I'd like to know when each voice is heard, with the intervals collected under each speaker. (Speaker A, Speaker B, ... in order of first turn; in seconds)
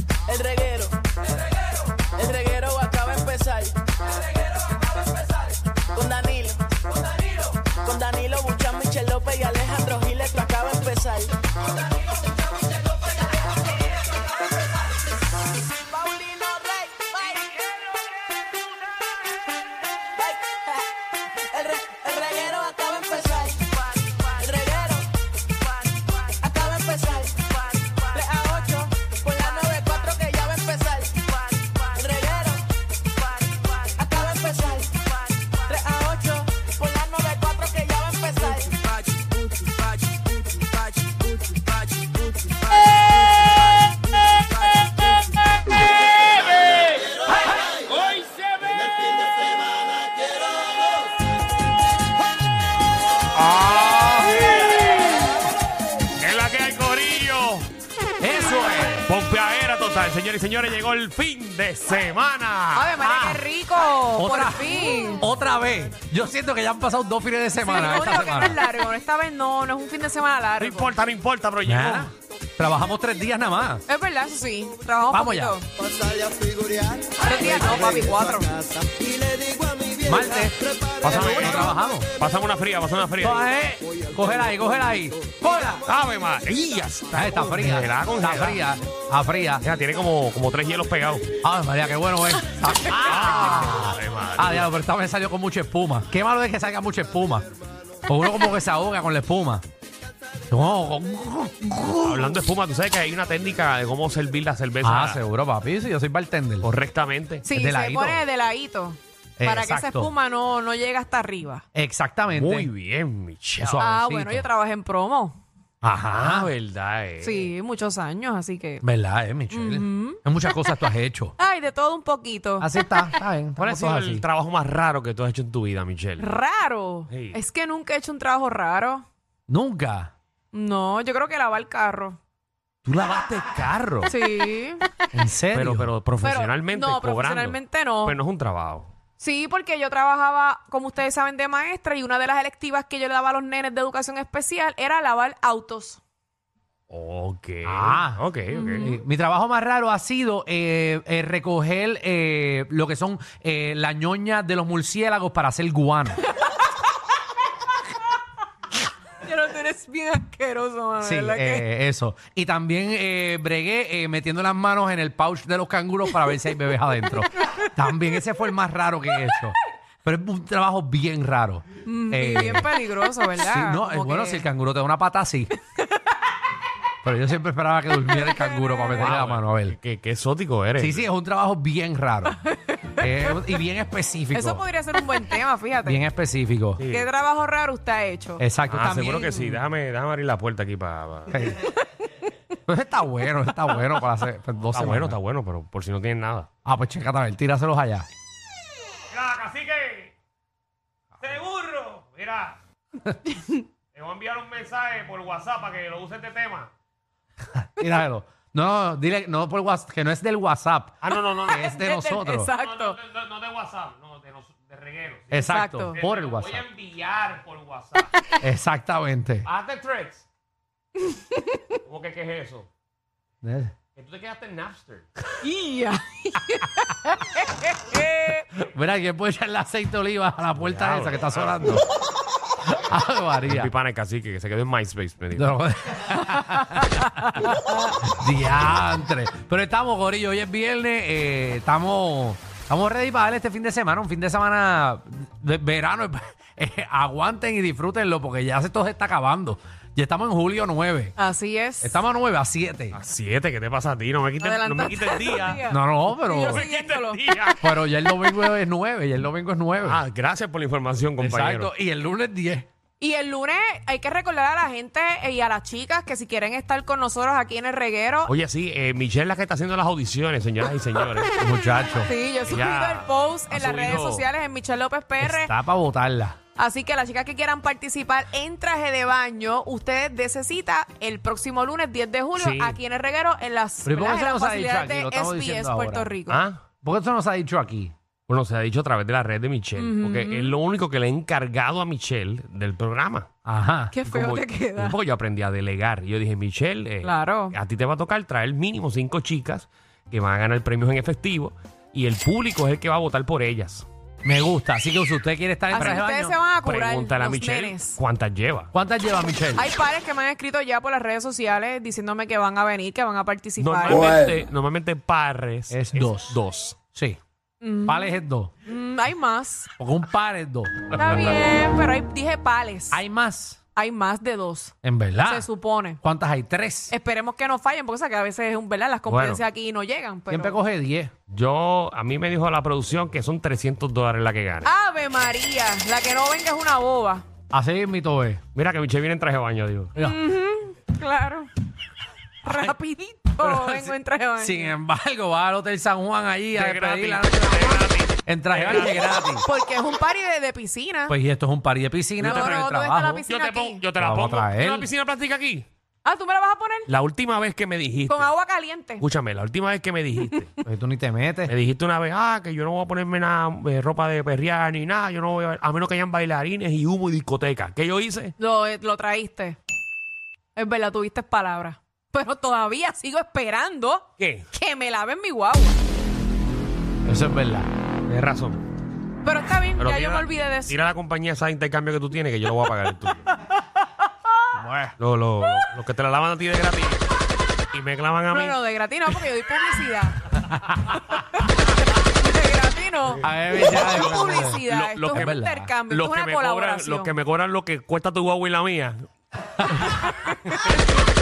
Speaker A: 0.2-1.0, 2.1-3.8, 5.9-6.8, 7.6-11.3, 15.8-17.6, 20.1-25.1, 25.9-45.4, 49.0-49.8, 76.1-77.0
Speaker B: 53.4-55.2, 56.2-57.7, 59.0-63.0, 70.6-72.1, 81.0-83.4, 85.8-88.6, 89.6-91.2, 93.0-94.7, 102.0-105.2, 106.6-107.5, 112.3-113.8, 116.1-117.5, 123.6-126.2, 127.1-127.4, 132.8-134.1, 135.5-138.9, 146.9-148.9, 179.0-181.1, 186.8-187.1, 188.7-191.3, 194.7-196.5, 199.1-200.1, 201.2-202.6, 203.9-206.7, 211.0-211.7, 212.5-218.1, 219.4-220.2, 221.8-222.7, 223.9-225.1, 230.5-231.8, 233.4-235.5, 252.9-255.6, 256.4-257.7, 259.8-261.7, 268.2-271.3, 272.5-274.2, 282.4-282.8, 286.3-286.6, 288.3-293.3, 294.0-303.9, 306.6-308.7, 313.6-316.8, 329.1-329.4, 331.3-334.7, 338.5-339.9, 346.5-349.1, 352.2-352.6, 353.2-355.6, 356.9-358.3, 359.0-360.5, 361.4-368.3, 374.2-374.4, 378.1-378.6, 379.8-383.3, 385.0-387.1, 387.7-388.6, 393.6-395.3, 395.9-399.1, 400.5-400.8
Speaker C: 58.2-59.1, 63.0-63.5, 64.1-68.6, 71.6-73.8, 75.1-75.6, 77.4-78.0, 80.0-82.1, 83.2-85.8, 87.1-89.6, 91.4-97.5, 98.0-99.6, 100.5-102.4, 104.8-106.7, 107.5-108.2, 109.4-110.1, 111.7-112.7, 113.6-114.5, 115.8-116.5, 118.8-121.3, 122.6-124.2, 129.5-130.1, 135.1-135.9, 147.6-156.2, 161.0-172.7, 173.3-175.5, 177.0-179.8, 180.8-182.4, 183.0-184.7, 185.8-186.8, 188.4-189.6, 191.3-191.7, 192.7-195.2, 196.6-198.1, 207.6-212.5, 215.3-216.6, 218.4-219.5, 223.4-223.7, 228.5-231.8, 232.6-233.7, 235.3-237.5, 238.0-251.2, 251.8-252.9, 255.7-256.6, 257.6-260.0, 261.2-262.7, 271.4-272.1, 275.2-276.4, 283.8-286.1, 286.8-287.9, 293.4-293.9, 304.2-306.4, 308.7-309.7, 315.7-317.2, 317.8-318.5, 319.8-321.3, 322.9-323.6, 324.8-325.5, 326.0-326.9, 330.3-331.1, 337.5-338.4, 339.9-340.2, 342.4-342.8, 343.4-349.4, 351.1-353.2, 354.0-354.9, 360.6-361.5, 377.0-377.7, 384.5-384.9, 393.2-395.7
Speaker D: 62.7-65.2, 67.6-70.9, 73.9-75.7, 77.2-78.6, 107.4-111.6, 113.8-115.4, 117.2-118.8, 119.5-120.2, 121.4-122.7, 126.2-129.0, 130.5-132.2, 134.1-134.9, 136.2-138.1, 139.2-146.0, 148.5-149.0, 159.2-161.7, 171.8-174.4, 178.1-179.2, 182.9-183.2, 184.3-186.0, 186.9-188.4, 211.5-213.0, 215.4-216.0, 221.0-221.6, 225.4-228.4, 251.2-252.0, 254.4-257.2, 263.0-268.3, 272.0-275.5, 276.6-286.4, 289.8-290.6, 293.9-294.9, 297.0-297.6, 305.7-308.0, 309.5-314.1, 317.6-319.7, 320.9-323.0, 323.7-326.0, 326.9-330.6, 334.6-337.2, 340.0-341.5, 342.4-344.8, 349.4-351.1, 352.2-353.8, 356.0-356.9, 358.1-359.0, 368.4-369.6, 370.5-375.7, 379.2-380.8, 388.3-390.2, 391.1-397.1, 399.8-400.8